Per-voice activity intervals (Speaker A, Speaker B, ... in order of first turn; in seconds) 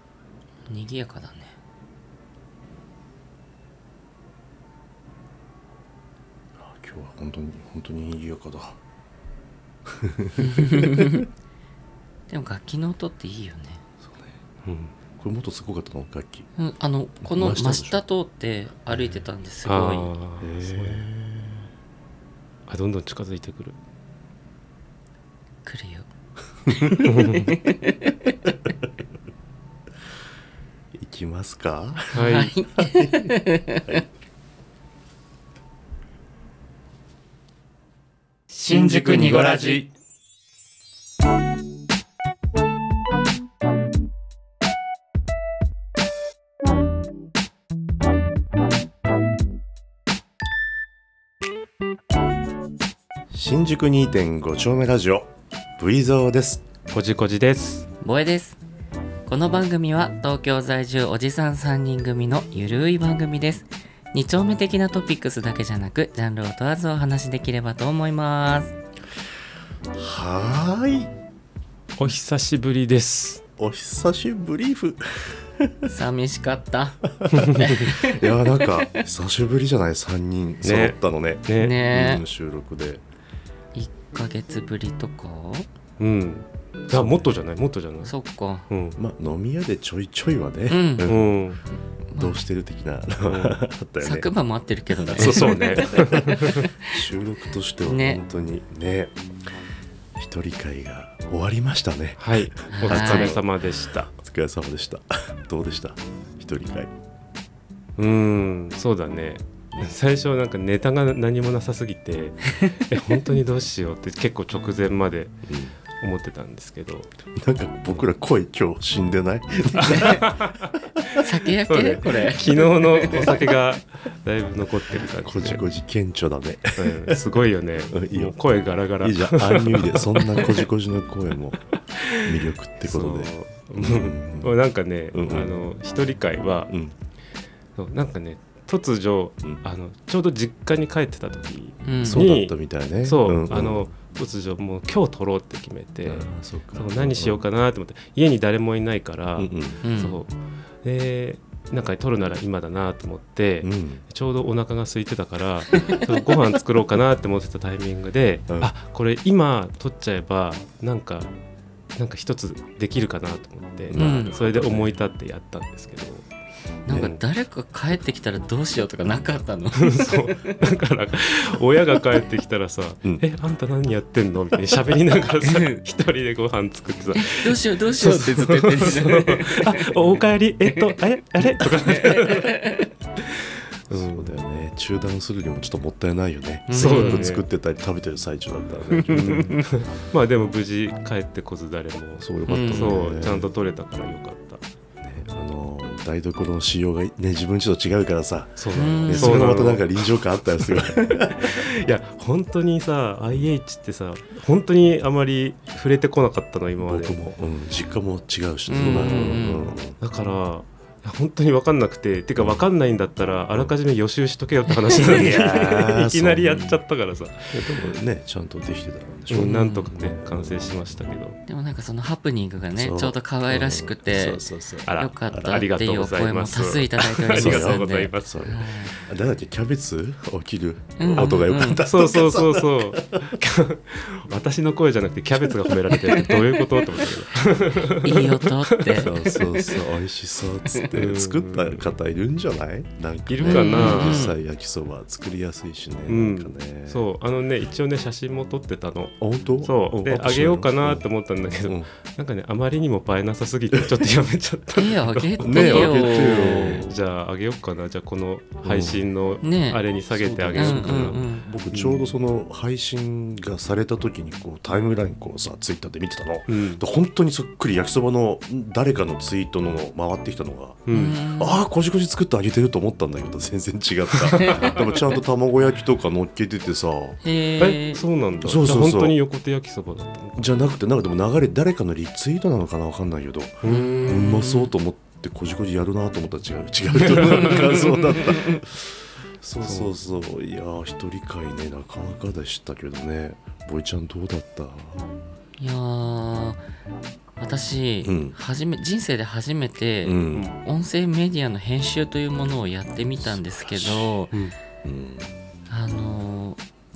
Speaker A: 0.7-1.5, 10.4-11.3, 12.3-13.8, 16.6-20.1, 25.6-26.1, 26.7-28.5, 32.1-34.0, 38.5-39.9, 58.0-58.6, 59.3-68.7, 75.9-79.0, 81.5-82.2, 83.7-85.7, 88.0-88.7, 90.7-91.1, 92.1-92.4, 94.0-97.0, 97.9-98.2, 102.7-103.4, 112.5-113.2, 119.8-120.2, 121.2-123.5, 141.8-142.2, 149.8-150.2, 163.9-164.4, 166.8-170.7, 175.4-175.8, 177.2-179.9, 181.8-182.9, 186.7-187.3, 188.9-189.6, 192.5-193.2, 198.7-199.6, 208.7-209.7, 214.7-215.1, 219.4-219.9, 221.5-228.9, 231.0-231.9, 235.9-237.1, 237.8-239.7, 243.4-244.3, 254.7-256.9, 259.4-259.8, 260.5-261.5, 270.9-271.6, 274.4-274.8, 277.2-278.1, 283.6-284.7, 288.2-288.6, 295.6-296.6, 297.4-304.3, 305.7-306.6
Speaker B: 6.6-8.8, 9.8-11.2, 14.0-14.4, 15.2-16.5, 17.2-18.0, 20.4-21.7, 26.7-27.2, 30.9-33.3, 53.3-56.6, 69.9-71.1, 73.6-75.9, 77.1-83.0, 86.9-87.3, 88.9-91.4, 92.1-94.3, 94.9-99.2, 100.2-106.9, 115.5-115.8, 117.3-120.5, 123.0-123.5, 125.2-127.3, 127.9-128.4, 129.0-134.5, 135.1-135.5, 136.7-136.9, 142.0-143.9, 146.0-147.4, 149.4-149.8, 153.6-154.0, 163.9-164.9, 166.9-167.1, 183.9-189.6, 192.2-193.5, 195.0-201.6, 206.8-210.0, 214.9-216.8, 217.5-221.0, 222.7-225.5, 227.3-233.3, 238.9-247.1, 249.2-251.1, 251.6-251.9, 253.7-254.0, 255.4-256.9, 258.6-259.0, 260.1-277.2, 278.4-279.2, 280.4-295.1, 298.0-298.4, 300.0-300.5, 303.2-304.2, 304.8-305.3
Speaker C: 14.6-14.9, 19.6-21.0, 22.7-23.8, 27.0-27.6, 32.1-32.5, 56.9-57.9, 72.0-73.4, 77.4-77.8, 80.6-81.8, 86.0-88.1, 88.7-89.0, 91.1-91.6, 93.2-93.6, 95.2-96.7, 102.2-104.1, 108.0-115.4, 116.0-117.1, 119.8-125.6, 126.8-130.7, 131.9-136.7, 137.8-150.3, 150.8-161.3, 161.9-166.3, 166.9-167.2, 169.8-182.6, 183.9-184.3, 186.7-187.4, 189.1-194.6, 198.6-207.2, 208.8-209.4, 210.0-217.8, 219.3-221.4, 224.8-228.6, 231.2-239.5, 240.9-241.9, 243.3-244.3, 246.1-262.1, 266.5-266.8, 270.9-271.2, 274.1-274.8, 277.6-280.6, 283.6-284.3, 287.0-287.9, 289.6-289.9, 300.3-300.6